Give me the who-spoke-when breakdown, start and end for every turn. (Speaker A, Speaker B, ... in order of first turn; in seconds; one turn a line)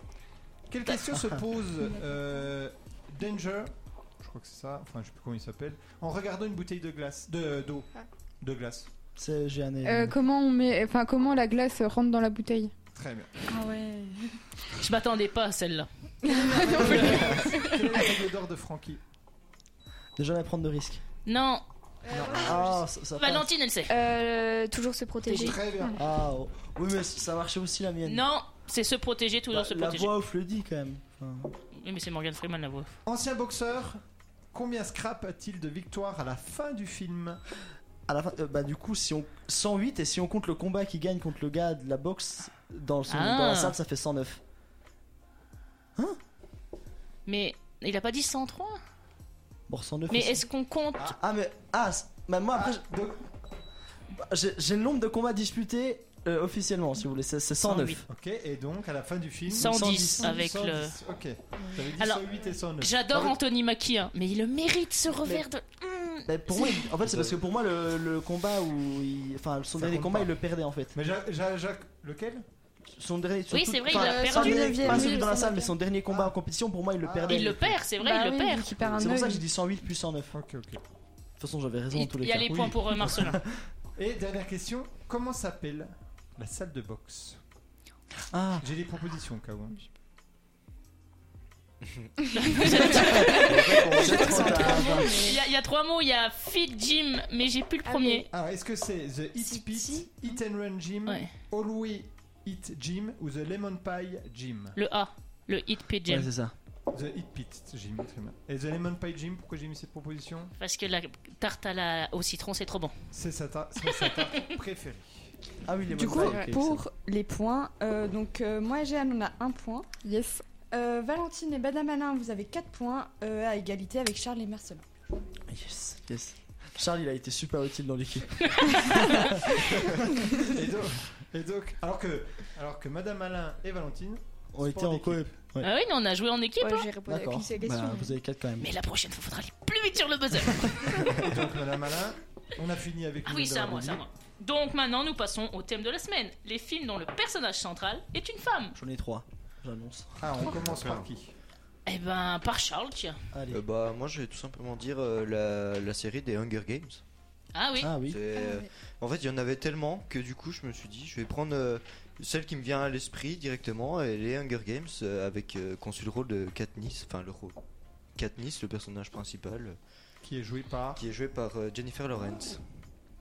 Speaker A: 0.7-7.9
Speaker B: 1.1-1.4
Speaker A: 8.4-8.9
Speaker B: 9.2-10.2
Speaker C: 9.8-12.7
Speaker A: 12.9-13.3
Speaker D: 13.5-14.3
Speaker E: 14.8-15.9
Speaker A: 16.3-19.0
Speaker C: 16.3-16.7
Speaker D: 16.3-17.0
Speaker B: 16.9-17.4
Speaker B: 20.2-21.0
Speaker E: 21.3-21.6
Speaker F: 22.1-22.8
Speaker A: 22.1-22.6
Speaker B: 22.3-23.5
Speaker E: 23.2-23.9
Speaker F: 23.9-25.6
Speaker E: 25.3-25.6
Speaker A: 25.3-26.0
Speaker B: 25.9-28.2
Speaker E: 28.1-30.1
Speaker B: 29.5-31.5
Speaker E: 31.8-33.0
Speaker A: 33.1-34.0
Speaker A: 34.5-37.4
Speaker B: 38.1-44.4
Speaker E: 43.1-43.8
Speaker E: 47.3-48.8
Speaker B: 49.7-52.8
Speaker E: 50.1-51.1
Speaker A: 52.5-53.2
Speaker B: 54.1-58.0
Speaker A: 57.7-63.0
Speaker B: 59.5-60.4
Speaker E: 59.5-61.0
Speaker E: 62.0-62.2
Speaker E: 62.8-66.8
Speaker B: 66.3-71.0
Speaker G: 67.0-67.4
Speaker A: 69.8-70.2
Speaker A: 70.9-72.4
Speaker B: 72.9-77.8
Speaker E: 73.5-75.3
Speaker D: 73.9-75.8
Speaker A: 77.0-77.4
Speaker E: 77.3-78.7
Speaker D: 78.0-79.4
Speaker B: 79.0-80.4
Speaker A: 80.3-80.8
Speaker B: 81.4-83.6
Speaker E: 81.9-83.4
Speaker A: 82.5-83.2
Speaker A: 84.0-87.4
Speaker B: 88.3-88.7
Speaker A: 88.6-89.8
Speaker E: 92.3-98.3
Speaker B: 92.9-95.2
Speaker G: 93.4-94.2
Speaker D: 93.9-95.4
Speaker F: 94.2-95.2
Speaker F: 97.9-98.3
Speaker A: 98.3-104.8
Speaker D: 99.4-100.1
Speaker E: 104.8-106.3
Speaker B: 106.1-106.5
Speaker A: 106.9-110.5
Speaker E: 110.6-112.9
Speaker A: 113.1-115.3
Speaker E: 113.9-114.2
Speaker B: 115.7-116.8
Speaker D: 115.9-119.9
Speaker C: 120.0-120.5
Speaker D: 120.7-124.9
Speaker B: 125.5-130.2
Speaker E: 128.5-129.4
Speaker A: 130.4-135.3
Speaker B: 134.5-135.7
Speaker E: 135.6-136.9
Speaker F: 136.6-138.1
Speaker B: 137.1-138.7
Speaker E: 138.6-141.1
Speaker A: 141.1-144.0
Speaker E: 143.3-148.8
Speaker B: 148.8-150.5
Speaker A: 150.2-151.3
Speaker E: 151.9-153.2
Speaker B: 153.3-153.6
Speaker G: 153.5-157.0
Speaker E: 157.5-157.9
Speaker B: 157.8-158.2
Speaker G: 158.1-167.6
Speaker G: 168.2-169.8
Speaker A: 170.2-171.0
Speaker G: 171.0-172.6